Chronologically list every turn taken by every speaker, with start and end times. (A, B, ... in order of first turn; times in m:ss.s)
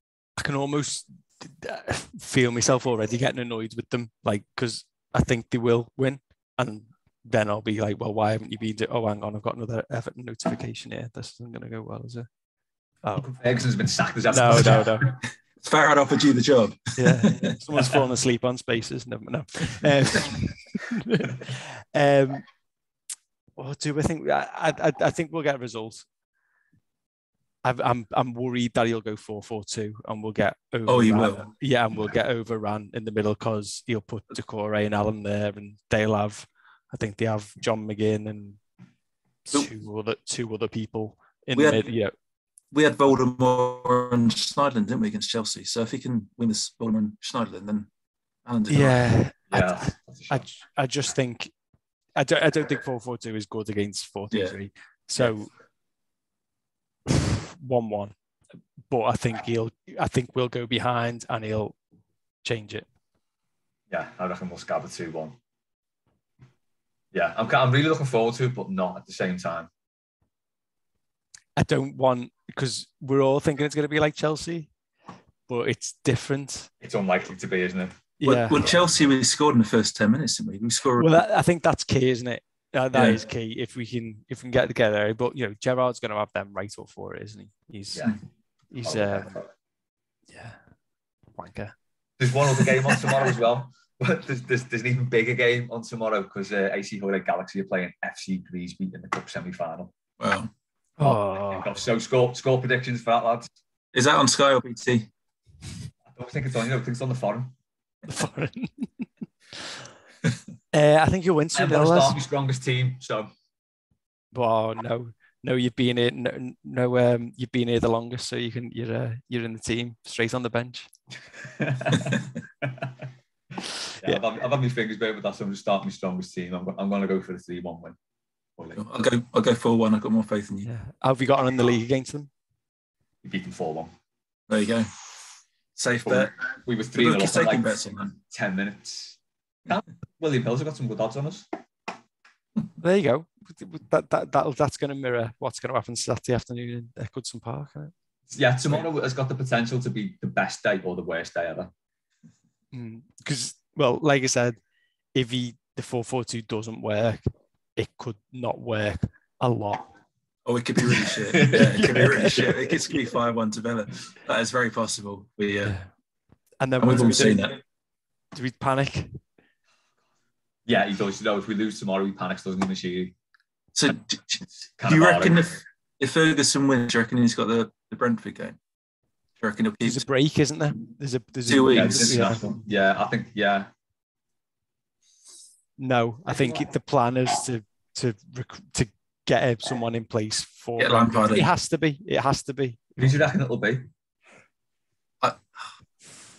0:00.4-0:12.3 A
0:13.2-0:15.0 B
0:14.3-0:15.1 A
0:15.6-0:17.6 C
0:17.0-0:22.4 A
0:23.6-0:26.1 A
0:27.6-0:38.6 A
0:30.9-0:31.5 C
0:39.5-0:42.1 A
0:41.6-0:41.8 C
0:42.7-0:47.9 C
0:48.4-0:49.1 C
0:48.7-0:51.5 A
0:49.5-0:50.5 B
0:52.2-0:55.5 A
0:57.1-0:58.1 A
0:58.9-1:01.8 A
1:02.4-1:02.9 A
1:03.9-1:05.4 B
1:07.1-1:09.7 B
1:11.6-1:14.7 A
1:15.5-1:16.7 A
1:16.8-1:18.0 B
1:18.2-1:18.6 A
1:18.2-1:21.2 C
1:21.0-1:28.1 A
1:22.9-1:23.2 C
1:28.7-1:29.4 A
1:28.8-1:29.5 B
1:30.3-1:30.6 A
1:31.4-1:31.7 A
1:32.2-1:39.9 B
1:40.2-1:40.5 C
1:41.0-1:41.7 A
1:41.5-1:43.5 B
1:43.9-1:45.1 C
1:46.1-1:47.5 B
1:48.1-1:49.8 A
1:50.7-1:52.2 A
1:51.6-1:53.3 B
1:54.3-2:00.9 A
2:01.4-2:02.9 B
2:04.0-2:08.0 B
2:08.6-2:08.8 B
2:08.8-2:10.7 C
2:10.7-2:12.3 A
2:13.2-2:13.9 B
2:14.5-2:14.9 C
2:15.8-2:16.4 C
2:16.0-2:21.5 B
2:17.0-2:18.1 C
2:22.8-2:27.9 A
2:28.3-2:31.7 B
2:32.7-2:34.6 A
2:35.2-2:37.2 A
2:37.8-2:39.9 A
2:40.4-2:45.8 C
2:41.1-2:42.6 B
2:41.4-2:43.0 A
2:46.6-2:47.6 A
2:46.8-2:47.6 C
2:48.3-2:49.2 A
2:50.7-2:53.1 B
2:53.8-2:58.6 C
2:54.8-2:55.5 B
2:59.4-3:00.1 C
2:59.8-3:02.5 A
3:01.5-3:02.4 C
3:01.7-3:03.7 B
3:05.8-3:13.0 A
3:06.3-3:06.7 B
3:10.8-3:11.5 C
3:13.0-3:13.9 B